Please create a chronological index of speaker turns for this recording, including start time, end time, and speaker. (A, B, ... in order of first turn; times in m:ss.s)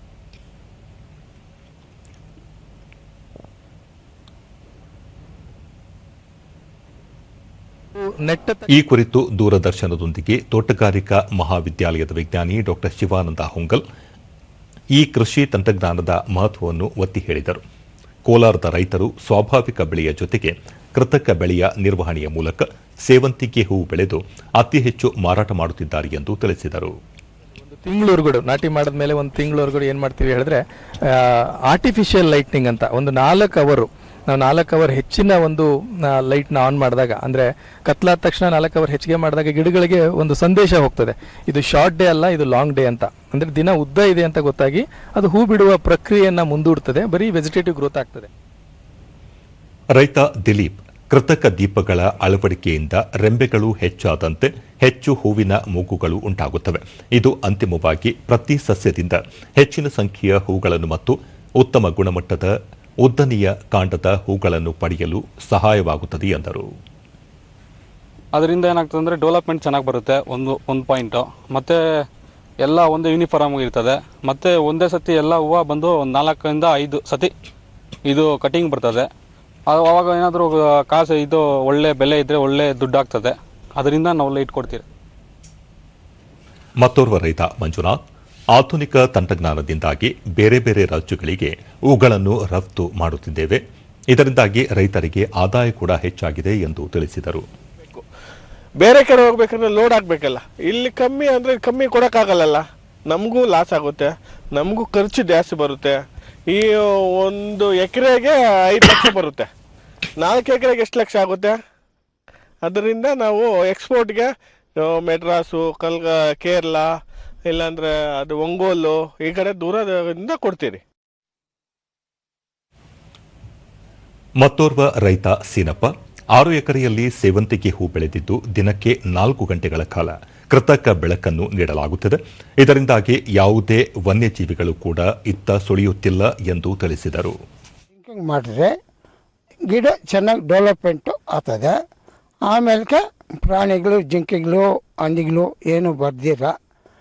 0:08.0-0:08.7 A
0:08.7-0:13.8 B
0:14.9-0:17.6 B
0:18.3-0:26.9 B
0:27.7-0:30.6 A
0:31.1-0:48.3 A
0:50.0-1:06.7 B
1:08.3-1:11.8 C
1:12.6-1:17.3 C
1:18.0-1:19.1 C
1:19.7-1:24.8 C
1:26.8-1:28.0 B
1:28.5-1:37.4 B
1:38.8-1:49.5 D
1:50.2-1:51.6 D
1:52.6-1:56.9 D
1:57.5-2:00.8 D
2:04.4-2:17.4 B
2:18.0-2:18.7 E
2:19.7-2:21.7 E
2:22.5-2:26.5 E